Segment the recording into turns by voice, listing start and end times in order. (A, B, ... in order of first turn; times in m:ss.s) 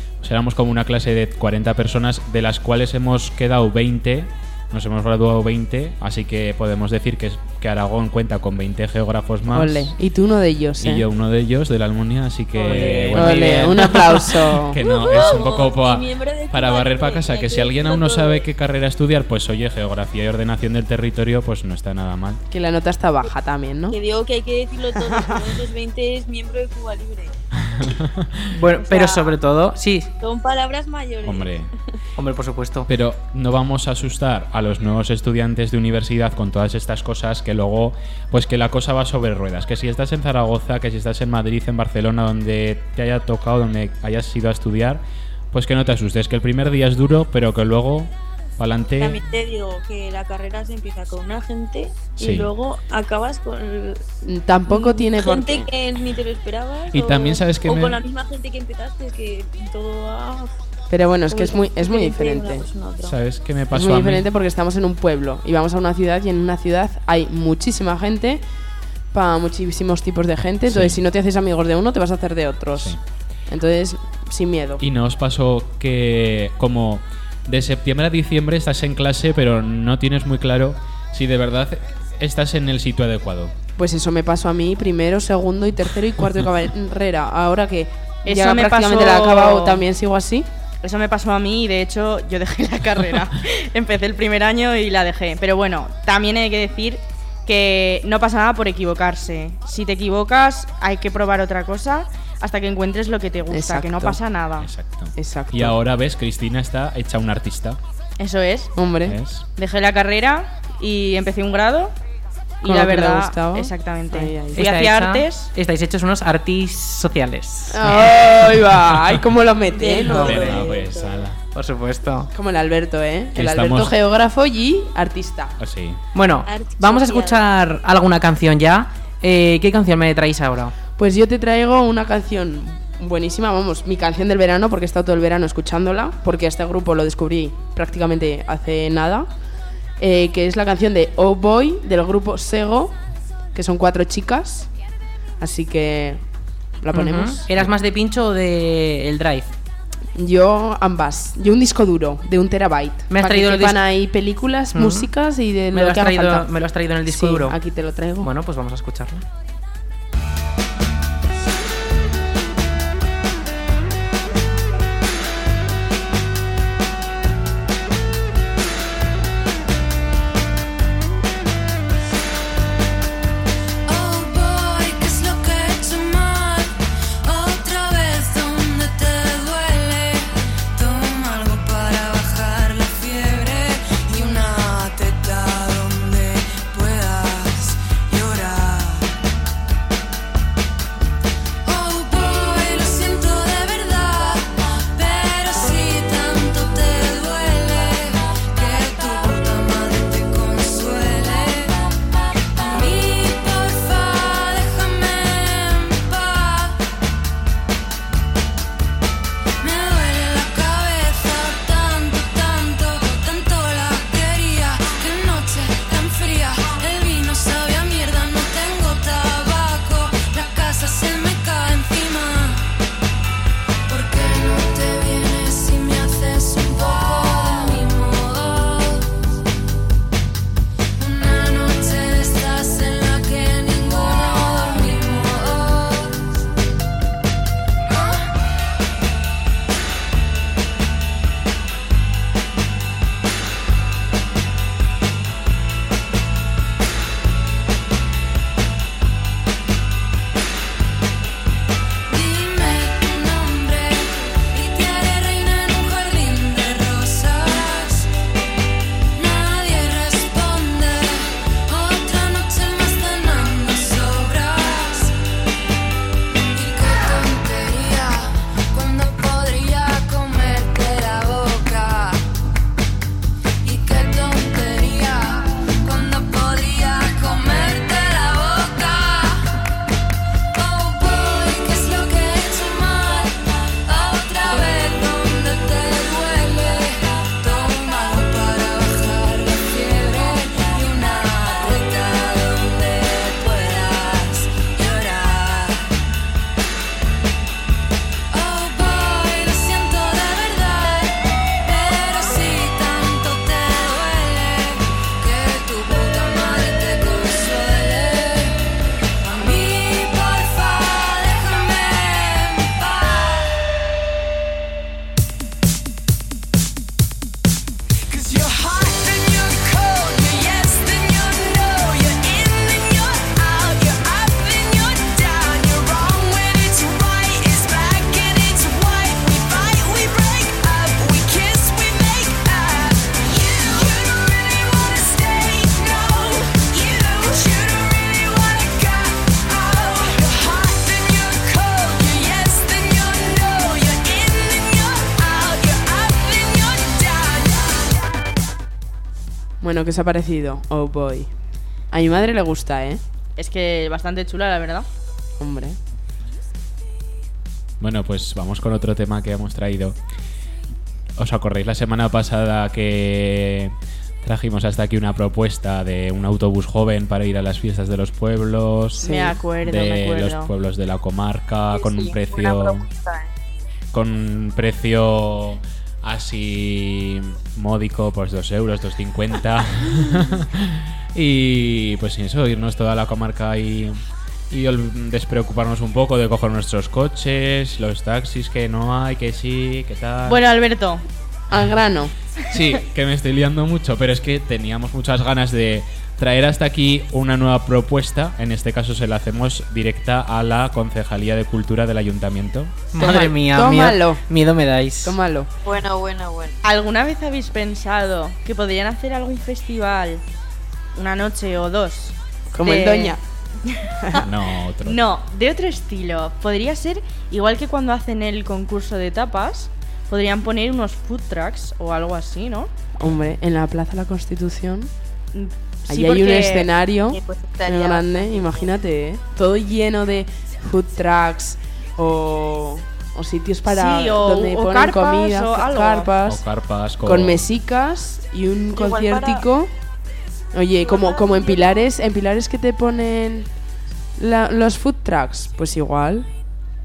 0:00.2-0:09.9 A
0:09.5-0:11.1 B
0:10.8-0:14.1 A
0:12.6-0:14.4 C
0:13.1-0:14.8 B
0:14.6-0:22.4 A
0:14.8-0:18.5 D
0:22.5-0:24.0 B
0:23.9-0:27.4 D
0:27.6-0:28.5 A
0:28.5-0:30.1 C
0:28.8-0:29.4 D
0:30.2-0:31.6 D
0:31.2-0:31.7 A
0:32.2-0:32.9 C
0:32.9-0:49.2 A
0:49.0-1:00.5 D
0:52.2-0:52.5 A
0:54.3-0:55.7 B
0:56.9-0:58.0 A
1:00.9-1:02.7 B
1:01.3-1:03.2 D
1:03.0-1:04.3 A
1:03.7-1:08.4 B
1:09.1-1:13.0 B
1:10.7-1:11.0 A
1:13.5-1:14.8 B
1:14.8-1:23.5 A
1:23.8-1:30.5 B
1:28.3-1:29.8 E
1:30.8-1:44.7 E
1:43.5-1:44.2 B
1:44.6-1:47.8 A
1:45.2-1:45.8 B
1:48.2-1:48.7 E
1:48.8-1:49.2 B
1:49.1-1:49.4 A
1:49.6-1:51.9 E
1:52.6-1:55.5 E
1:52.6-1:54.6 B
1:54.6-1:58.2 C
1:57.7-2:00.8 B
1:59.7-2:01.3 D
2:00.1-2:00.6 C
2:00.2-2:01.4 A
2:01.5-2:02.3 C
2:02.3-2:05.6 B
2:03.4-2:03.9 A
2:05.6-2:06.0 A
2:06.2-2:10.7 C
2:06.4-2:07.4 D
2:11.0-2:19.3 B
2:20.0-2:23.0 B
2:23.5-2:24.7 B
2:25.4-2:26.2 B
2:26.8-2:27.5 B
2:26.9-2:29.5 C
2:30.2-2:36.5 B
2:33.1-2:33.8 C
2:34.7-2:35.1 C
2:35.7-2:37.6 C
2:37.0-2:38.3 B
2:38.2-2:39.2 C
2:53.9-2:56.6 F
2:57.3-3:00.2 F
3:00.8-3:04.4 F
3:01.8-3:03.5 G
3:04.6-3:09.0 G
3:11.7-3:14.4 F
3:15.0-3:18.0 F
3:18.6-3:21.5 F
3:22.6-3:26.5 F
3:29.6-3:42.5 F
3:43.9-3:49.0 F
3:51.0-3:56.0 F
4:12.1-4:18.0 F
4:19.2-4:25.1 F
4:26.6-4:32.2 F
4:33.6-4:39.4 F
4:40.6-4:43.3 F
4:43.9-4:55.3 F
4:58.3-5:01.1 F
5:01.7-5:08.5 F
5:09.3-5:13.2 F
5:18.1-5:47.9 G
5:49.6-5:51.3 B
5:51.9-5:53.0 B
5:53.4-5:54.9 E
5:55.4-5:55.8 B
5:57.8-6:00.0 A
6:01.2-6:09.1 A
6:09.0-6:10.5 E
6:09.0-6:09.4 B
6:09.6-6:12.9 A
6:11.7-6:13.3 D
6:13.9-6:24.0 A
6:24.5-6:30.4 A
6:30.3-6:31.0 E
6:31.5-6:32.1 B
6:32.5-6:42.9 A
6:42.9-6:45.2 C
6:43.0-6:44.2 B
6:45.0-6:45.5 B
6:45.6-6:46.6 D
6:46.6-6:50.2 E
6:51.0-6:54.2 E
6:52.5-6:53.2 B
6:54.2-6:55.0 A
6:54.8-7:02.7 E
7:03.0-7:04.9 B
7:05.3-7:06.7 E
7:05.9-7:16.4 B
7:07.1-7:08.7 D
7:13.7-7:16.1 E
7:16.2-7:17.5 A
7:17.0-7:19.7 B
7:18.7-7:19.5 D
7:20.5-7:23.5 B
7:20.8-7:21.9 D
7:24.2-7:26.3 B